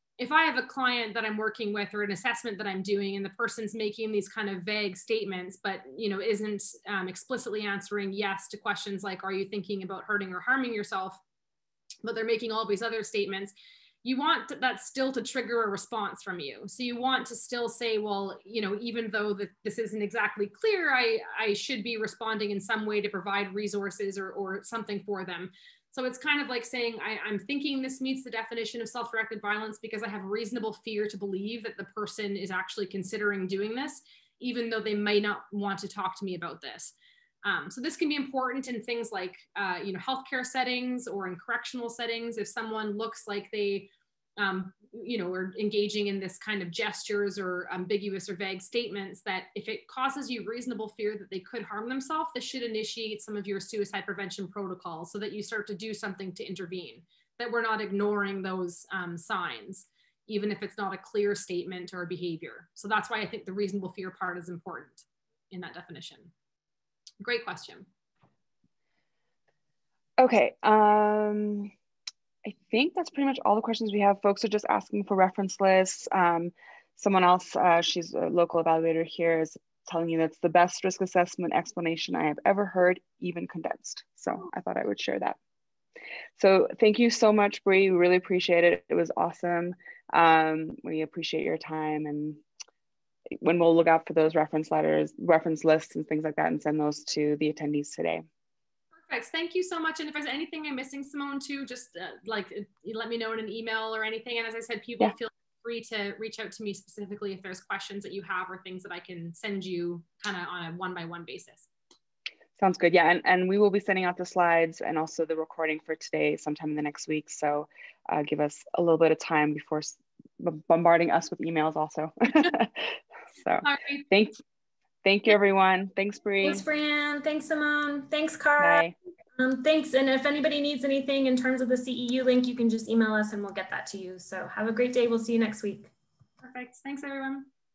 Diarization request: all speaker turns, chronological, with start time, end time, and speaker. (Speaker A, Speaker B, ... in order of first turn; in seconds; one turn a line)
Speaker A: 0.2-11.2
Speaker A: 12.0-13.5
Speaker A: 14.0-66.3
Speaker A: 67.2-67.9
Speaker B: 70.2-71.7
Speaker B: 72.5-85.4
Speaker B: 86.4-92.4
Speaker B: 93.4-98.2
Speaker A: 99.1-111.7
Speaker B: 112.6-124.4
Speaker A: 123.6-124.0
Speaker B: 125.0-126.6
Speaker C: 126.4-128.8
Speaker B: 128.6-128.9
Speaker C: 129.4-135.9
Speaker A: 136.4-137.5